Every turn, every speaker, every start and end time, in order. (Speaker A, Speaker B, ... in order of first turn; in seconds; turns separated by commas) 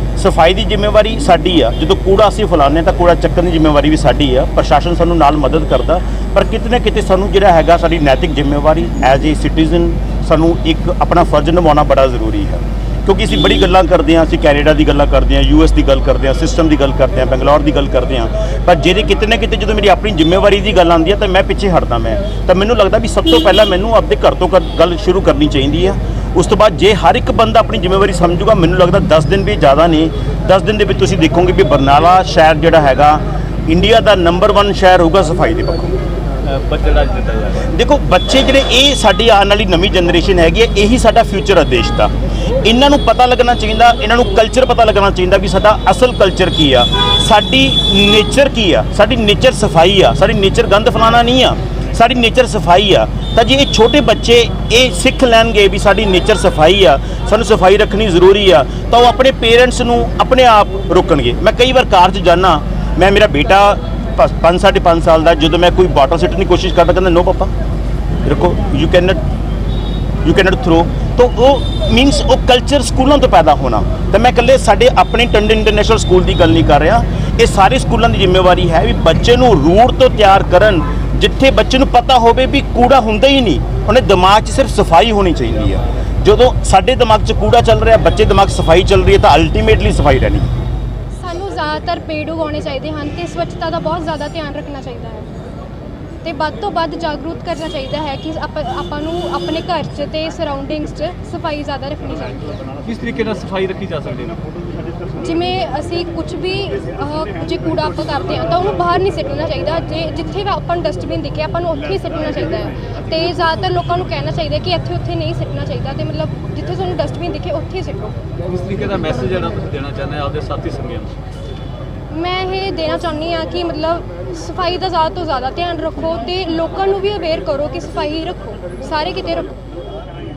Speaker A: 0.2-35.9, Speaker B: 36.5-37.5, Speaker A: 37.7-42.1, Speaker A: 42.6-67.5, Speaker A: 68.2-69.2, Speaker A: 70.2-90.5, Speaker C: 91.2-95.2, Speaker C: 96.2-102.6, Speaker B: 102.9-104.4, Speaker C: 105.2-118.1, Speaker B: 118.5-121.1, Speaker C: 122.1-129.6